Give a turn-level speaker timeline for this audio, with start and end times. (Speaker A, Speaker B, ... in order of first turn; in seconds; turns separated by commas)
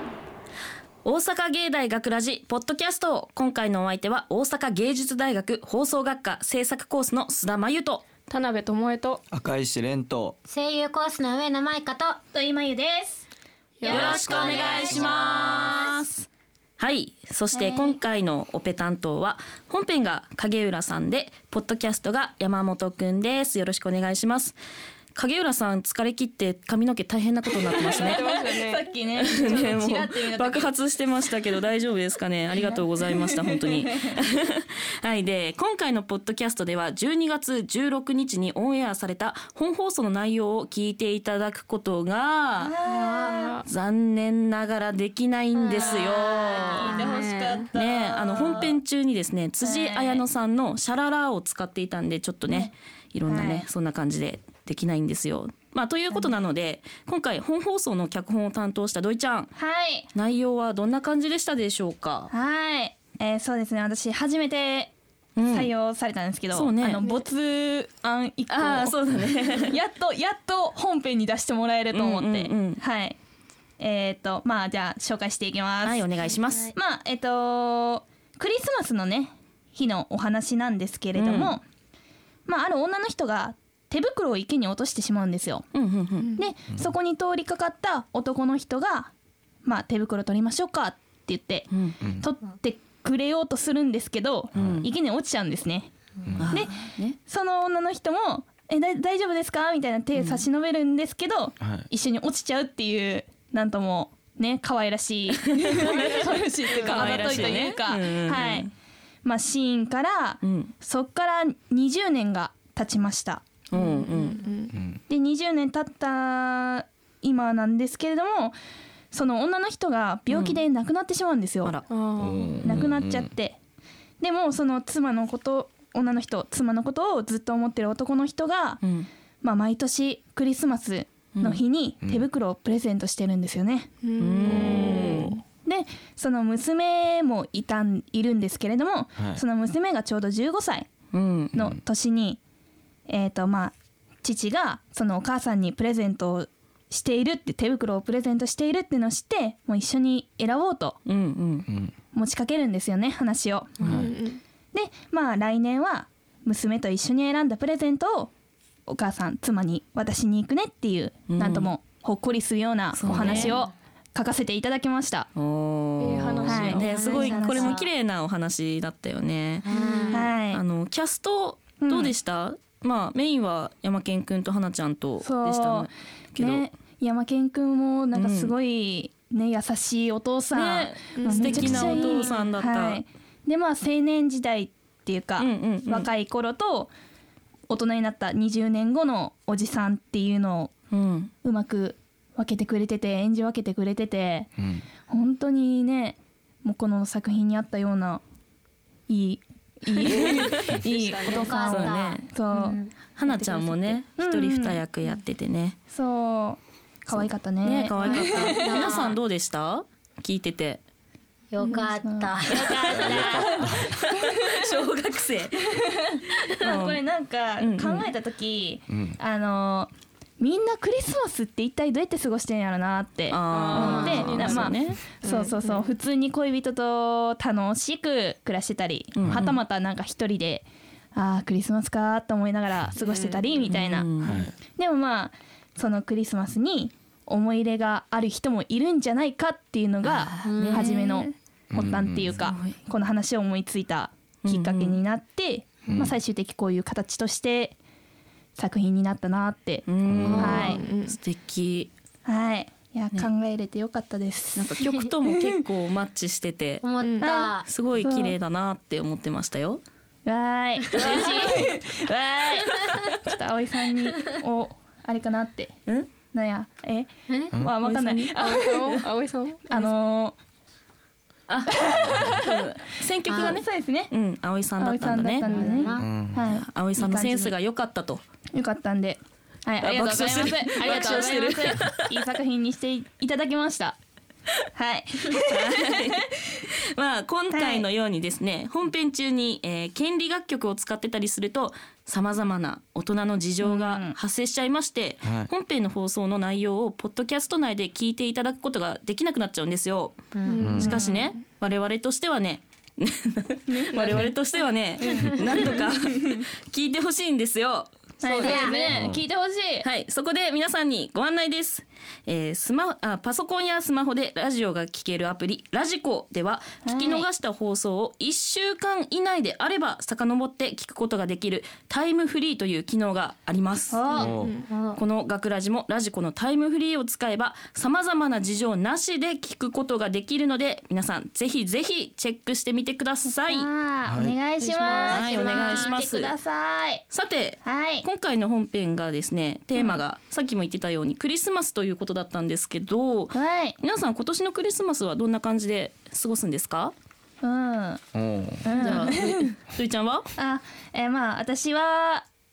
Speaker A: 1.0-8.1, Speaker B: 8.3-9.2, Speaker C: 9.3-10.4, Speaker D: 10.5-12.2, Speaker E: 12.3-13.2, Speaker B: 13.8-14.5, Speaker D: 13.8-16.0, Speaker E: 13.8-15.2, Speaker A: 13.9-16.3, Speaker A: 16.8-24.6, Speaker E: 17.5-18.0, Speaker A: 25.1-28.2, Speaker B: 27.6-28.9, Speaker E: 27.9-30.7, Speaker A: 29.2-42.8, Speaker E: 32.6-34.2, Speaker E: 42.6-43.6, Speaker D: 42.8-43.5, Speaker B: 43.2-43.6, Speaker A: 43.7-47.0, Speaker D: 45.5-47.1, Speaker B: 45.8-46.2, Speaker E: 45.8-48.8, Speaker B: 46.8-47.7, Speaker A: 47.7-59.5, Speaker E: 49.6-50.2, Speaker E: 53.3-53.7, Speaker E: 59.6-60.1, Speaker A: 60.1-62.3, Speaker E: 62.3-69.0, Speaker A: 65.4-65.7, Speaker A: 66.5-67.0, Speaker A: 68.5-69.8, Speaker E: 69.5-73.2, Speaker A: 71.9-72.8, Speaker E: 73.8-76.1, Speaker A: 75.8-76.8, Speaker E: 76.6-81.6, Speaker A: 81.2-81.6, Speaker E: 82.5-85.7, Speaker A: 85.7-86.4, Speaker B: 86.2-86.4, Speaker E: 86.3-89.1, Speaker E: 89.6-95.9, Speaker A: 91.7-92.0, Speaker C: 92.0-92.3, Speaker C: 94.5-94.9, Speaker A: 94.6-94.9, Speaker C: 96.3-96.6, Speaker A: 96.4-97.2, Speaker E: 96.5-108.7, Speaker A: 100.2-100.5, Speaker C: 101.6-101.9, Speaker A: 105.4-108.7, Speaker B: 105.8-107.7, Speaker E: 109.2-113.4, Speaker A: 110.4-110.7, Speaker A: 113.7-114.4, Speaker B: 113.7-114.8, Speaker C: 114.7-115.0, Speaker E: 115.1-118.6, Speaker E: 119.1-121.8, Speaker A: 120.3-120.6, Speaker B: 121.9-122.7, Speaker C: 122.2-123.3, Speaker E: 122.6-123.6, Speaker E: 124.2-128.8, Speaker A: 128.8-129.1, Speaker E: 129.4-133.9, Speaker A: 131.3-131.6, Speaker B: 134.0-135.3, Speaker A: 134.2-135.4, Speaker C: 134.4-135.4, Speaker E: 134.8-135.0, Speaker E: 135.6-140.9, Speaker C: 139.2-139.4, Speaker A: 141.1-141.6, Speaker E: 141.5-142.4, Speaker E: 143.1-151.0, Speaker A: 151.1-151.7, Speaker C: 151.7-151.9, Speaker E: 152.1-153.9, Speaker D: 153.8-154.1, Speaker C: 153.8-154.1, Speaker B: 153.9-154.4, Speaker E: 154.7-158.3, Speaker E: 158.9-165.3, Speaker A: 161.3-161.7, Speaker A: 162.9-163.6, Speaker C: 163.0-163.5, Speaker D: 163.1-163.7, Speaker A: 165.4-176.7, Speaker B: 166.0-167.8, Speaker E: 166.5-167.7, Speaker D: 166.8-167.9, Speaker D: 169.6-170.3, Speaker B: 169.7-170.2, Speaker E: 170.1-170.6, Speaker E: 171.8-172.2, Speaker E: 175.2-186.9, Speaker A: 178.2-178.5, Speaker A: 180.5-183.0, Speaker B: 181.2-182.2, Speaker D: 182.0-182.5, Speaker A: 185.4-186.1, Speaker E: 187.7-190.7, Speaker A: 190.9-191.3, Speaker E: 191.4-194.5, Speaker C: 194.6-194.8, Speaker E: 195.1-198.2, Speaker E: 199.1-202.8, Speaker B: 200.0-201.5, Speaker D: 201.2-204.0, Speaker A: 201.3-202.2, Speaker A: 203.2-205.8, Speaker E: 204.2-204.8, Speaker E: 205.9-209.0, Speaker A: 207.6-210.8, Speaker D: 208.0-209.2, Speaker D: 211.5-213.3, Speaker E: 211.6-214.8, Speaker A: 212.8-215.7, Speaker C: 212.9-213.9, Speaker E: 215.7-234.1, Speaker A: 216.4-217.0, Speaker A: 217.6-218.1, Speaker C: 218.9-219.2, Speaker A: 223.3-225.0, Speaker B: 223.5-225.9, Speaker D: 223.8-224.3, Speaker A: 229.2-229.6, Speaker B: 233.0-233.5, Speaker A: 233.7-234.4, Speaker C: 234.2-234.5, Speaker E: 234.8-247.8, Speaker A: 240.0-241.2, Speaker D: 240.4-241.2, Speaker C: 241.7-242.4, Speaker A: 242.4-242.8, Speaker A: 244.4-245.0, Speaker C: 245.9-246.2, Speaker E: 248.6-250.8, Speaker A: 249.9-251.9, Speaker C: 250.1-250.6, Speaker D: 250.2-250.8, Speaker B: 250.4-251.2, Speaker E: 252.3-254.8, Speaker A: 254.6-256.9, Speaker D: 256.8-257.7, Speaker B: 257.0-257.3, Speaker E: 257.2-258.4, Speaker A: 257.7-259.8, Speaker E: 260.3-265.8, Speaker A: 260.9-261.6, Speaker B: 261.1-261.4, Speaker E: 266.3-269.1, Speaker D: 267.3-267.5, Speaker A: 267.8-268.3, Speaker B: 268.4-269.9, Speaker E: 269.7-270.4, Speaker A: 271.5-275.7, Speaker E: 271.7-272.7, Speaker E: 273.3-274.1, Speaker E: 274.8-277.5, Speaker D: 275.4-276.1, Speaker C: 276.0-276.4, Speaker A: 276.4-278.2, Speaker E: 278.5-284.0, Speaker A: 279.8-282.2, Speaker E: 284.7-286.6, Speaker A: 285.3-308.6, Speaker E: 287.5-287.9, Speaker E: 293.6-294.2, Speaker C: 295.2-295.5, Speaker D: 300.4-301.1, Speaker B: 300.5-301.2, Speaker C: 300.6-300.9, Speaker E: 300.8-301.1, Speaker E: 303.7-304.3, Speaker E: 305.0-306.4, Speaker E: 308.2-309.9, Speaker B: 308.2-308.9, Speaker D: 308.4-308.9, Speaker C: 308.9-309.2, Speaker A: 309.8-324.0, Speaker E: 316.8-317.3, Speaker E: 323.9-324.3, Speaker D: 324.1-325.0, Speaker C: 324.1-324.6, Speaker B: 324.3-324.7, Speaker A: 324.9-333.7, Speaker E: 333.2-337.0, Speaker C: 334.1-334.4, Speaker D: 334.6-336.0, Speaker A: 334.9-336.4, Speaker A: 337.1-346.9, Speaker E: 337.6-338.1, Speaker E: 343.3-343.8, Speaker E: 347.4-348.0, Speaker C: 348.1-348.7, Speaker E: 348.6-349.6, Speaker A: 348.8-350.3, Speaker E: 350.4-352.2